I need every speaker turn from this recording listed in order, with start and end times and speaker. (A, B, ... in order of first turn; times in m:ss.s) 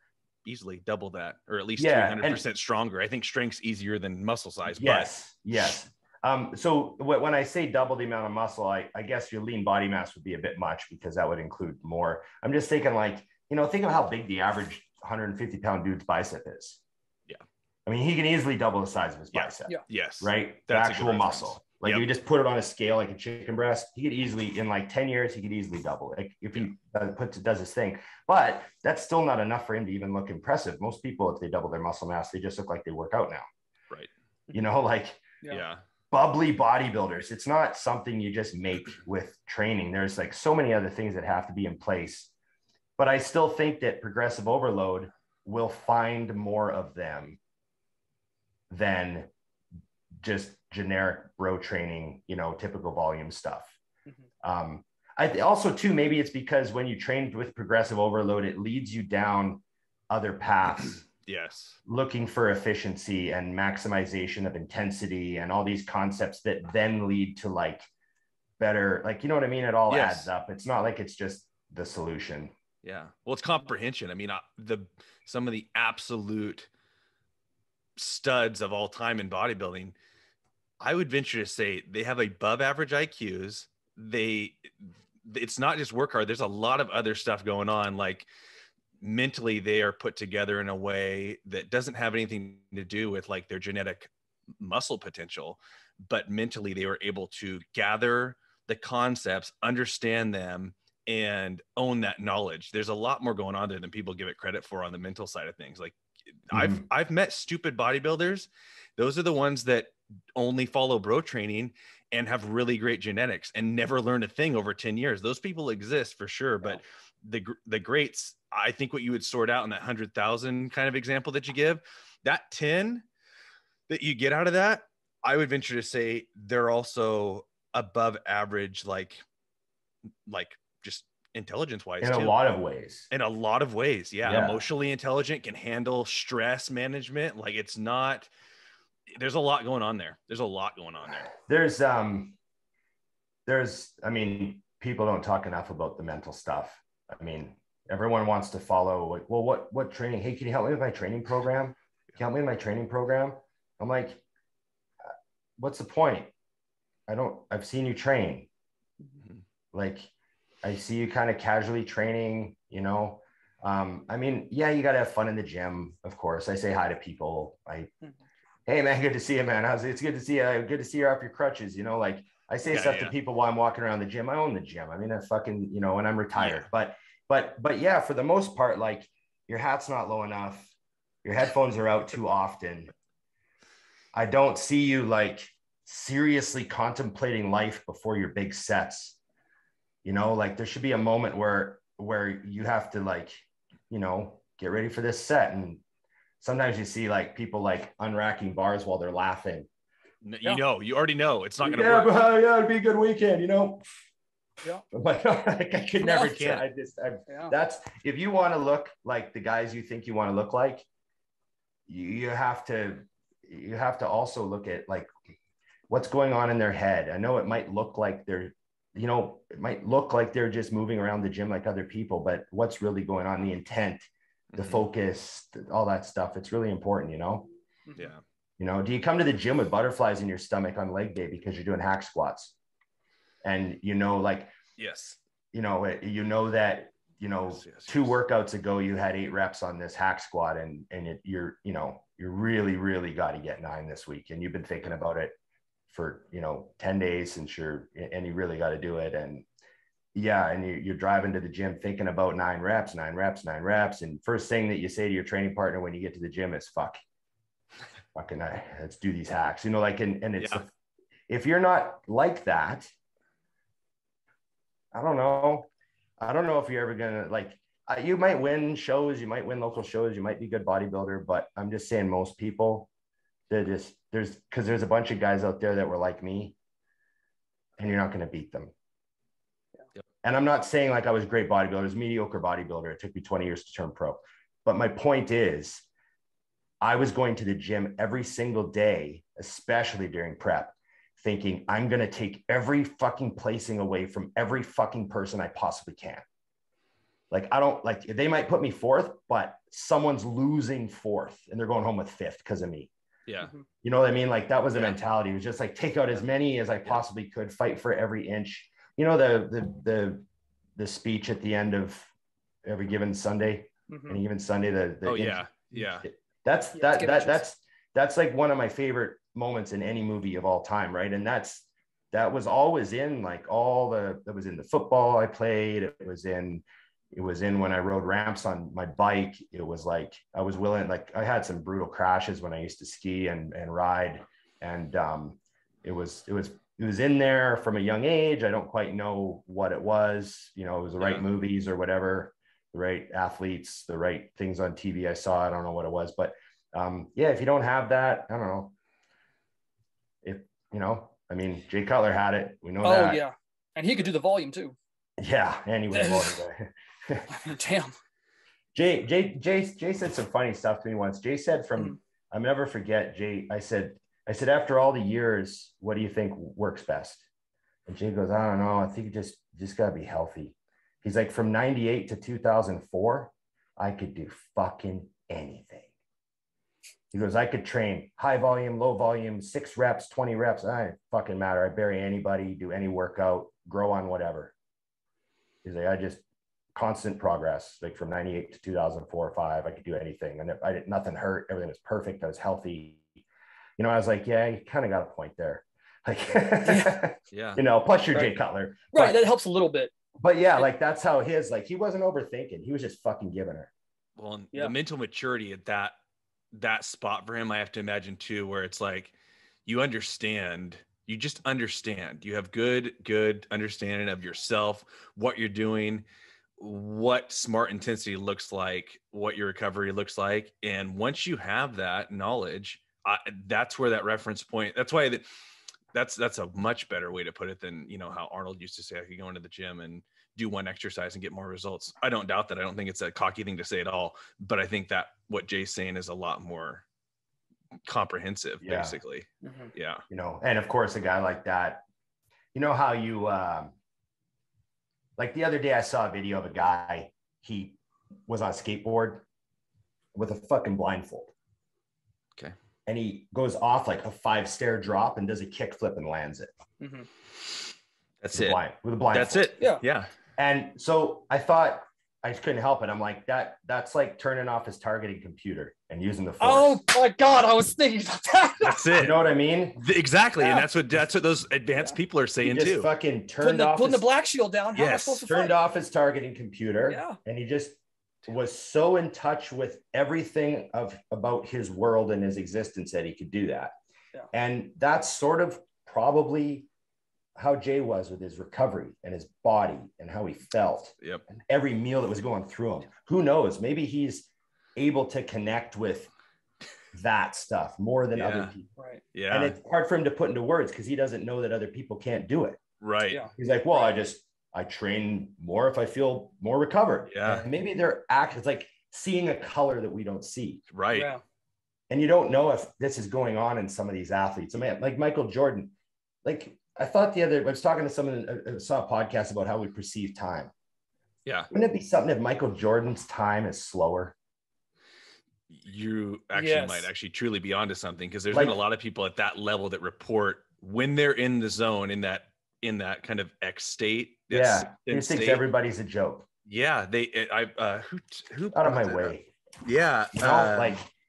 0:00.4-0:05.1 A
0:01.8-0:02.4 B
0:04.7-0:16.8 B
0:17.8-0:33.4 B
0:19.3-0:22.0 A
0:34.5-0:35.2 B
0:35.5-0:35.8 A
0:36.1-0:42.3 B
0:43.0-0:47.4 B
0:48.7-0:49.3 B
0:50.2-0:53.8 B
0:54.4-1:01.0 B
1:01.1-1:01.8 A
1:01.8-1:07.9 B
1:08.6-1:12.5 B
1:09.9-1:10.3 A
1:12.8-1:16.7 A
1:18.0-1:19.9 A
1:20.8-1:28.3 A
1:29.0-1:46.0 A
1:46.5-2:03.0 A
1:46.5-1:46.8 B
2:03.9-2:09.2 A
2:10.3-2:12.4 A
2:12.0-2:13.1 B
2:13.1-2:18.3 A
2:14.2-2:14.6 B
2:19.1-2:21.3 A
2:21.4-2:22.4 B
2:23.4-2:34.2 B
2:35.6-2:36.3 B
2:37.1-2:38.5 B
2:39.7-2:40.1 B
2:40.6-2:47.9 B
2:48.7-3:00.7 B
2:52.6-2:53.1 A
2:56.4-2:56.7 A
3:01.2-3:02.9 B
3:04.1-3:09.2 B
3:10.0-3:15.8 B
3:16.4-3:19.7 B
3:20.2-3:22.1 A
3:21.6-3:23.8 B
3:24.9-3:30.8 B
3:26.0-3:26.3 C
3:26.3-3:26.6 A
3:27.3-3:27.5 C
3:31.9-3:35.1 B
3:35.9-3:47.5 B
3:44.5-3:44.8 A
3:48.0-3:48.2 A
3:48.6-3:52.5 B
3:53.4-3:54.5 B
3:54.8-3:55.2 A
3:55.5-4:05.3 B
3:57.6-3:58.1 A
4:05.9-4:09.4 B
4:10.1-4:17.0 B
4:18.1-4:20.7 B
4:21.3-4:22.9 B
4:24.9-4:25.7 B
4:26.2-4:32.9 B
4:33.5-4:36.6 B
4:37.8-4:38.7 B
4:40.2-4:45.8 B
4:46.8-4:56.2 B
4:57.3-5:02.9 B
5:03.3-5:03.5 A
5:03.8-5:10.2 B
5:10.8-5:12.1 B
5:12.6-5:15.5 B
5:13.9-5:14.2 C
5:15.0-5:16.0 A
5:16.0-5:48.7 B
5:16.7-5:17.4 C
5:41.0-5:41.2 A
5:50.2-5:53.2 B
5:52.8-5:54.8 C
5:55.2-5:57.3 B
5:55.9-5:56.3 C
5:57.3-5:57.9 C
5:58.7-6:07.2 B
6:07.8-6:15.9 B
6:17.1-6:24.5 B
6:25.6-6:26.2 B
6:26.7-6:33.0 B
6:33.8-6:39.2 B
6:36.6-6:37.0 C
6:37.3-6:37.6 A
6:38.9-6:39.9 C
6:40.2-6:43.7 B
6:44.2-6:45.9 A
6:46.5-6:49.1 A
6:49.6-6:56.0 A
6:56.6-7:05.2 A
7:05.9-7:16.8 A
7:17.8-7:20.0 A
7:18.6-7:19.0 B
7:19.4-7:19.7 C
7:20.1-7:21.8 B
7:22.5-7:23.7 B
7:25.2-7:29.2 B
7:30.1-7:31.3 B
7:32.8-7:36.5 B
7:36.8-7:37.1 C
7:38.2-7:38.6 A
7:38.3-7:39.5 B
7:39.1-7:40.1 A
7:40.4-7:46.8 B
7:46.4-7:48.9 C
7:48.6-7:49.2 A
7:48.9-7:49.8 B
7:49.8-7:52.9 A
7:50.4-7:50.6 C
7:52.4-7:54.1 B
7:53.4-7:55.6 C
7:54.7-7:55.2 A
7:55.2-8:03.7 B
7:56.9-7:57.2 C
8:04.3-8:06.7 B
8:07.4-8:16.1 B
8:16.9-8:18.7 B
8:18.1-8:18.5 A
8:18.8-8:19.0 C
8:19.1-8:19.5 A
8:19.3-8:22.6 B
8:22.8-8:23.2 A
8:23.3-8:30.6 B
8:27.1-8:27.5 A
8:30.7-8:31.1 A
8:30.9-8:31.2 C
8:31.9-8:35.7 B
8:36.2-8:40.5 B
8:41.5-8:44.1 B
8:45.5-8:55.4 A
8:46.3-8:46.9 C
8:48.3-8:48.6 B
8:54.3-8:56.2 B
8:56.4-9:00.8 A
8:58.5-8:59.3 B
9:00.1-9:00.9 B